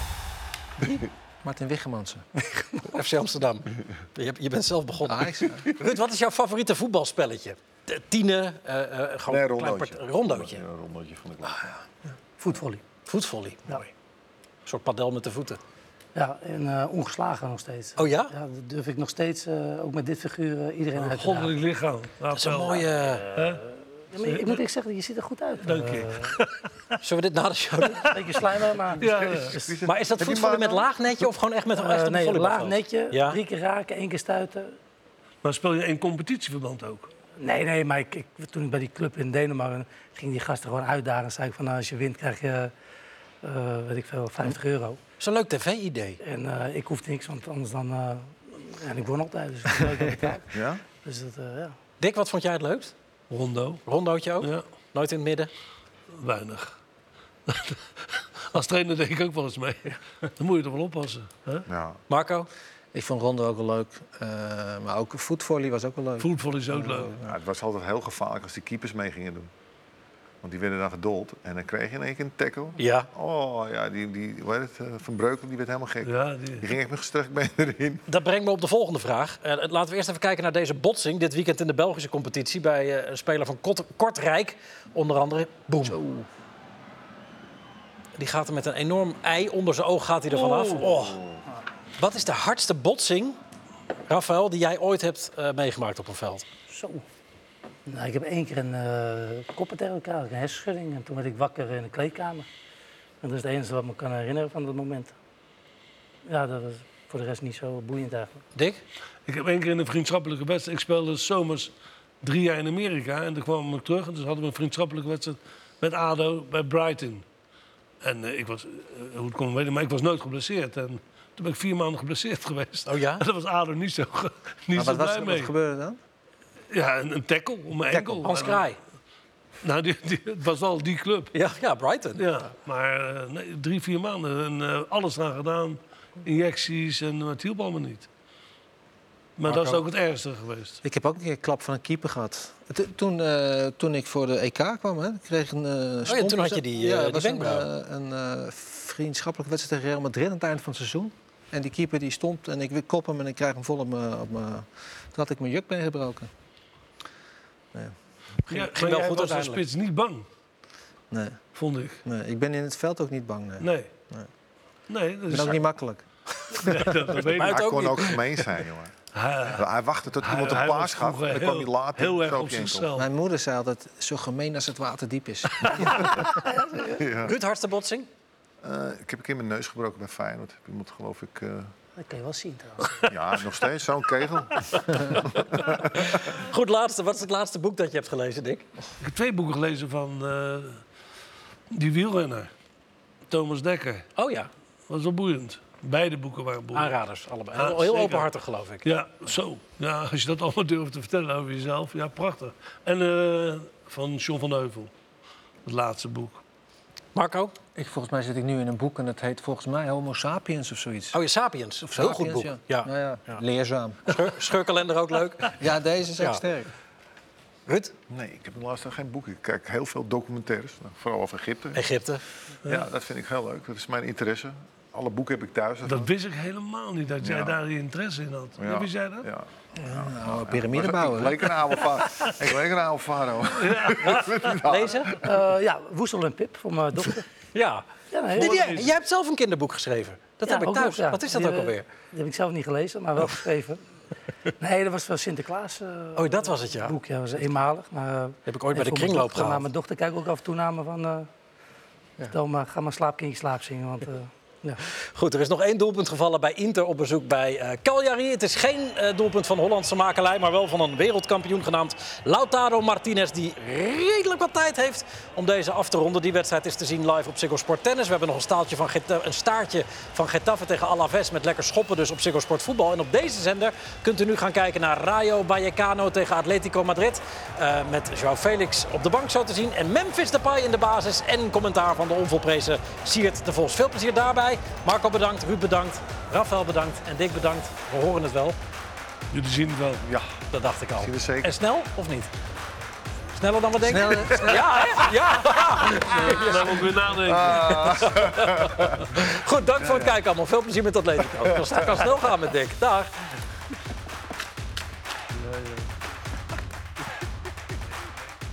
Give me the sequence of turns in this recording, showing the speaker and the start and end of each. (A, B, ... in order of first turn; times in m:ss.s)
0:01.4-0:02.3 A
0:02.8-0:10.6 B
0:05.0-0:05.6 A
0:09.3-0:11.7 C
0:12.4-0:12.8 D
0:13.1-0:13.9 B
0:14.6-0:15.6 B
0:16.1-0:21.5 D
0:18.0-0:18.3 B
0:21.0-0:23.6 E
0:22.3-0:23.3 B
0:24.1-0:26.4 D
0:24.2-0:24.6 E
0:25.6-0:26.5 E
0:27.0-0:28.2 B
0:28.1-0:29.8 D
0:29.0-0:31.3 C
0:29.0-0:29.5 E
0:29.8-0:33.4 B
0:31.7-0:34.8 D
0:35.4-0:37.1 E
0:37.4-0:42.7 D
0:43.4-0:45.0 D
0:45.2-0:46.2 B
0:46.2-0:51.7 D
0:50.5-0:50.8 C
0:52.0-0:52.9 B
0:53.3-0:53.8 E
0:53.8-0:55.5 B
0:56.1-0:56.7 E
0:57.5-1:01.6 E
1:01.7-1:02.0 C
1:02.1-1:02.5 B
1:02.9-1:07.3 A
1:06.2-1:07.1 E
1:07.2-1:09.5 C
1:10.4-1:18.0 C
1:12.8-1:13.1 B
1:16.0-1:16.7 E
1:18.1-1:26.0 B
1:25.8-1:26.2 C
1:28.2-1:31.2 B
1:30.3-1:31.4 C
1:32.0-1:33.4 B
1:34.1-1:36.4 B
1:36.7-1:37.0 D
1:37.8-1:42.5 D
1:43.2-1:45.1 D
1:46.2-1:48.4 D
1:48.5-1:48.8 B
1:49.3-1:57.2 E
1:58.0-2:05.5 E
2:02.9-2:03.2 B
2:04.7-2:06.0 A
2:06.7-2:08.7 E
2:07.9-2:08.3 A
2:08.2-2:08.8 B
2:09.6-2:11.3 E
2:11.3-2:12.3 B
2:12.2-2:18.1 E
2:19.4-2:20.8 E
2:19.5-2:19.7 A
2:20.8-2:36.3 A
2:26.1-2:27.7 B
2:38.5-2:39.6 B
2:38.5-2:40.2 E
2:41.1-2:41.4 A
2:41.5-2:42.0 E
2:42.0-2:44.3 A
2:43.6-2:43.9 E
2:44.9-2:45.7 E
2:45.3-2:47.0 A
2:46.5-2:47.7 E
2:47.3-2:48.9 C
2:47.4-2:48.2 B
2:49.1-2:49.6 E
2:49.4-2:52.9 C
2:50.2-2:53.1 E
2:53.0-2:56.2 A
2:56.1-2:57.3 C
2:56.4-2:56.9 D
2:57.2-2:58.1 B
2:58.6-3:01.7 C
3:02.0-3:03.1 D
3:03.1-3:06.2 C
3:05.5-3:08.6 B
3:09.0-3:10.8 E
3:11.7-3:12.5 E
3:13.3-3:14.1 E
3:14.2-3:14.5 B
3:14.9-3:16.9 E
3:16.7-3:18.9 B
3:17.5-3:18.3 E
3:18.8-3:24.9 E
3:25.6-3:26.4 E
3:27.1-3:27.5 B
3:27.7-3:31.2 A
3:31.1-3:33.4 B
3:31.8-3:34.2 A
3:34.0-3:35.5 B
3:35.4-3:36.7 A
3:37.7-3:37.9 B
3:38.1-3:41.8 C
3:41.7-3:42.2 B
3:42.6-3:46.1 C
3:45.8-3:49.3 E
3:47.2-3:47.6 C
3:48.6-3:55.3 C
3:49.8-3:51.8 A
3:53.5-3:54.6 E
3:54.0-3:55.2 B
3:55.2-3:57.2 D
3:57.5-4:01.8 B
3:58.1-3:58.7 D
3:58.4-3:58.9 E
4:00.4-4:03.8 D
4:04.6-4:11.3 D
4:06.2-4:07.0 B
4:08.5-4:09.6 B
4:12.3-4:14.8 D
4:15.1-4:48.6 B
4:49.3-4:50.0 E
4:50.0-4:50.4 C
4:50.5-4:52.3 B
4:51.0-4:51.5 C
4:53.4-4:56.8 B
4:53.8-4:54.8 A
4:54.5-4:55.0 C
4:56.0-4:58.1 E
4:57.1-4:59.3 C
4:57.6-5:03.1 B
4:59.8-5:00.1 C
5:01.4-5:02.1 C
5:05.3-5:05.9 E